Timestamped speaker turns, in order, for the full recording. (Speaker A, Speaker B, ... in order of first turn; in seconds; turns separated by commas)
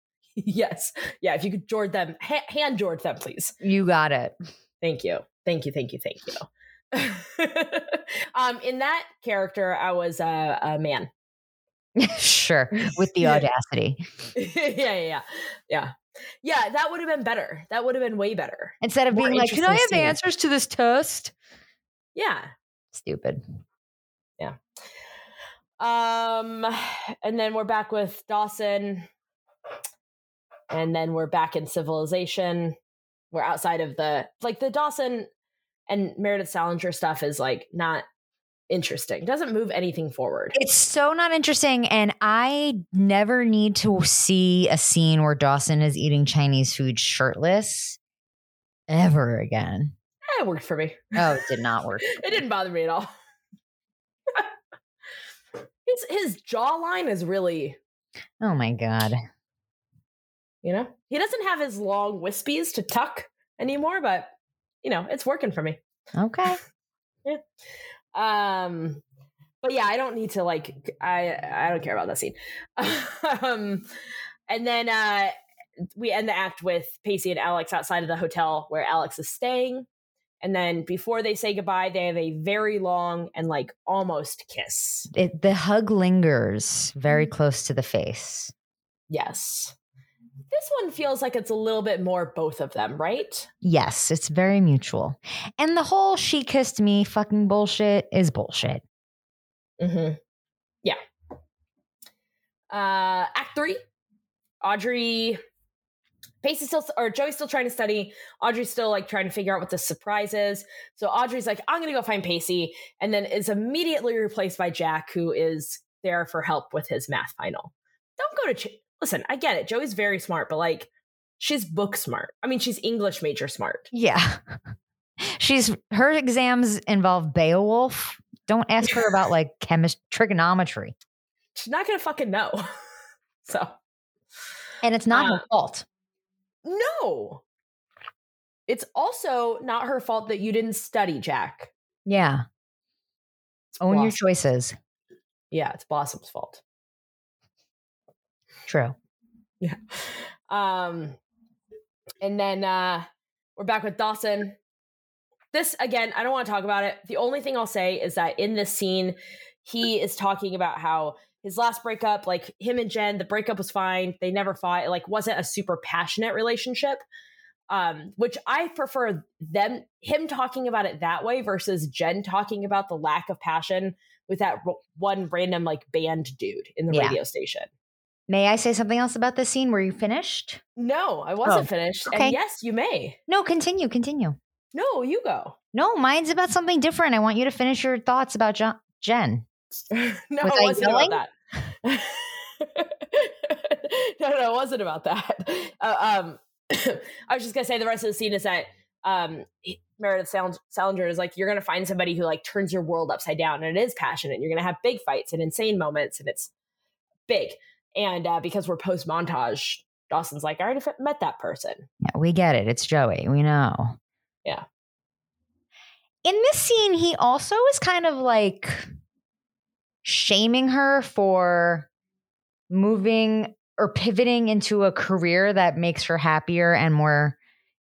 Speaker A: 0.4-3.5, Speaker B: 3.6-4.3, Speaker A: 4.8-11.1, Speaker B: 12.0-14.0, Speaker A: 12.8-13.4, Speaker A: 14.3-20.2, Speaker B: 18.8-21.3, Speaker A: 22.1-22.5, Speaker B: 22.9-23.4, Speaker A: 25.8-29.1, Speaker A: 30.7-32.8, Speaker A: 33.3-35.3, Speaker A: 35.9-38.0, Speaker A: 38.7-40.6, Speaker B: 40.5-48.0, Speaker B: 48.9-49.9, Speaker A: 50.3-51.1, Speaker B: 51.1-52.4, Speaker A: 52.0-53.1, Speaker A: 55.9-57.8, Speaker B: 58.4-59.2, Speaker A: 60.6-64.3, Speaker A: 64.8-65.8, Speaker B: 66.1-66.6, Speaker A: 68.1-69.0, Speaker A: 69.6-73.8, Speaker A: 74.5-75.3, Speaker A: 76.0-79.9, Speaker A: 80.4-85.1, Speaker B: 85.1-88.5, Speaker A: 89.1-89.7, Speaker A: 90.5-93.5, Speaker B: 93.6-98.8, Speaker A: 99.8-100.2, Speaker A: 102.7-103.8, Speaker A: 104.6-105.4, Speaker A: 106.4-123.9, Speaker B: 123.9-124.6, Speaker B: 125.2-130.9, Speaker A: 131.6-132.6, Speaker A: 133.4-133.7, Speaker B: 134.8-135.8, Speaker A: 135.1-135.4, Speaker A: 136.6-137.4, Speaker A: 138.7-141.7, Speaker B: 142.1-142.4, Speaker A: 143.7-144.2, Speaker B: 143.8-144.8, Speaker A: 145.5-146.6, Speaker B: 148.7-148.9, Speaker A: 149.6-151.2, Speaker A: 152.2-154.6, Speaker A: 155.5-167.0, Speaker A: 167.7-177.7, Speaker B: 176.9-177.2, Speaker B: 178.3-180.6, Speaker A: 180.8-183.2, Speaker B: 181.4-182.4, Speaker B: 183.3-184.4, Speaker A: 184.7-185.6, Speaker B: 185.7-189.4, Speaker A: 189.9-206.5, Speaker B: 190.4-191.2, Speaker A: 207.3-211.9, Speaker B: 212.0-213.9, Speaker B: 216.2-218.8, Speaker B: 220.0-221.9, Speaker B: 222.7-227.4